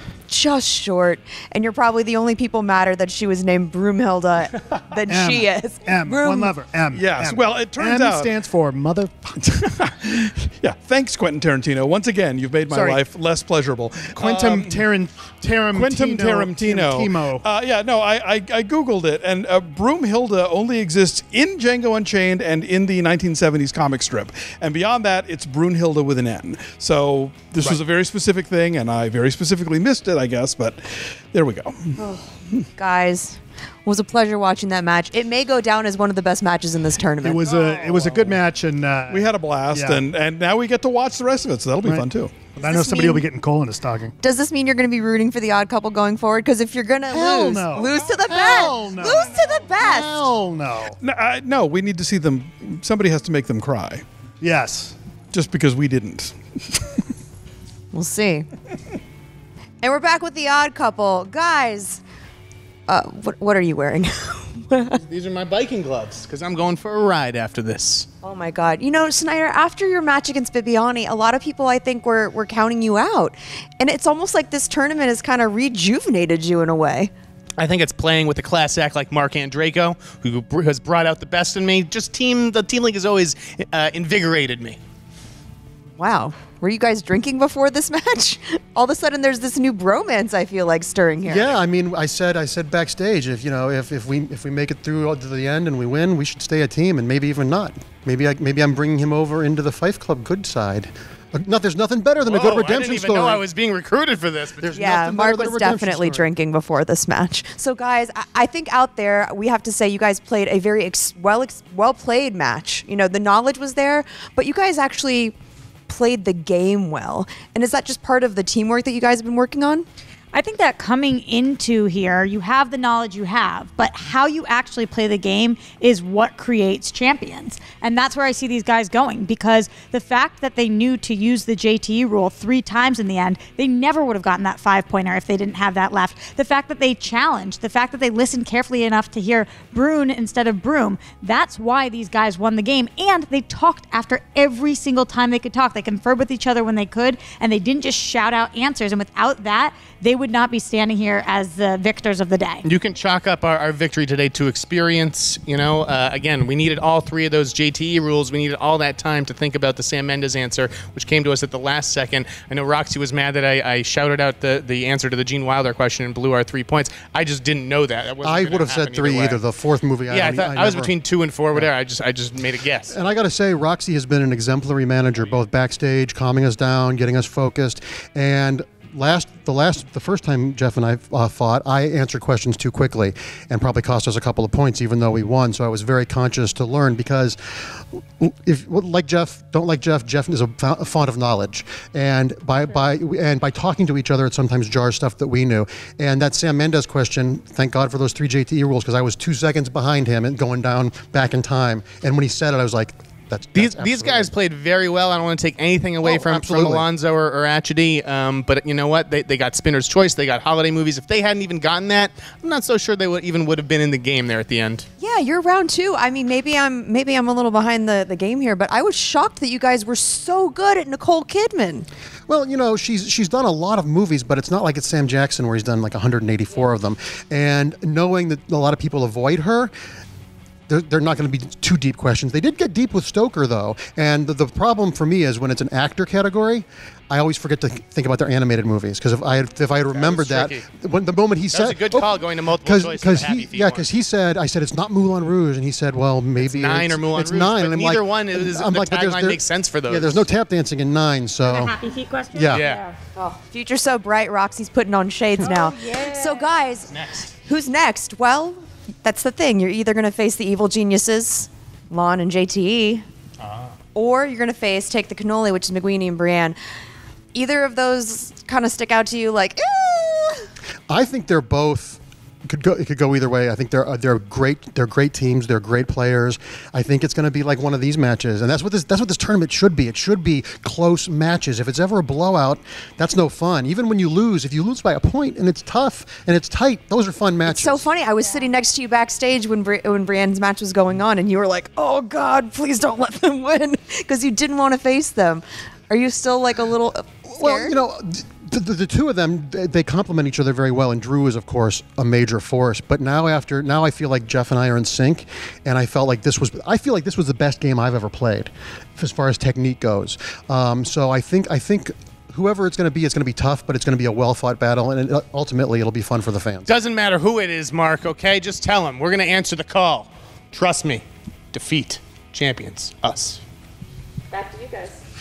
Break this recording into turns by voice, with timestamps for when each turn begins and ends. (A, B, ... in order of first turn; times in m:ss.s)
0:00.3-0:06.6 A
0:05.1-0:09.3 B
0:06.9-0:08.3 C
0:09.4-0:14.9 C
0:12.7-0:13.0 B
0:14.1-0:17.4 B
0:15.7-0:32.0 C
0:32.0-0:37.4 A
0:37.2-0:40.0 B
0:37.5-0:38.4 C
0:39.1-0:42.4 C
0:41.8-0:44.1 B
0:42.6-0:43.2 A
0:44.2-0:50.3 A
0:47.1-0:51.0 B
0:51.0-0:54.0 C
0:54.4-0:55.0 B
0:55.3-0:57.0 C
0:57.9-0:58.5 A
0:59.8-1:02.0 A
1:02.9-1:05.0 A
1:05.0-1:08.1 D
1:08.2-1:17.1 A
1:17.6-1:24.8 D
1:26.0-1:31.6 A
1:31.2-1:43.5 E
1:42.2-1:44.9 D
1:44.6-1:46.3 E
1:44.7-1:55.4 A
1:55.9-1:59.9 A
2:00.3-2:32.6 F
2:32.6-2:49.4 D
2:48.2-2:50.9 E
2:50.1-2:53.0 D
2:52.9-3:24.4 E
3:23.5-3:34.8 D
3:26.0-3:26.9 E
3:35.0-3:41.9 A
3:42.3-3:49.7 E
3:50.7-4:11.7 E
3:59.9-4:00.6 D
4:01.5-4:03.9 D
4:06.4-4:10.2 D
4:11.4-4:13.1 F
4:12.3-4:12.6 E
4:12.5-4:12.8 D
4:13.2-4:16.9 A
4:15.4-4:16.6 F
4:16.9-4:17.3 D
4:17.4-4:23.0 A
4:23.4-4:23.8 D
4:23.9-4:26.6 A
4:27.3-4:30.5 A
4:30.9-4:47.9 E
4:47.4-4:57.8 A
4:57.3-5:16.8 E
5:16.7-5:23.4 D
5:24.4-5:24.8 F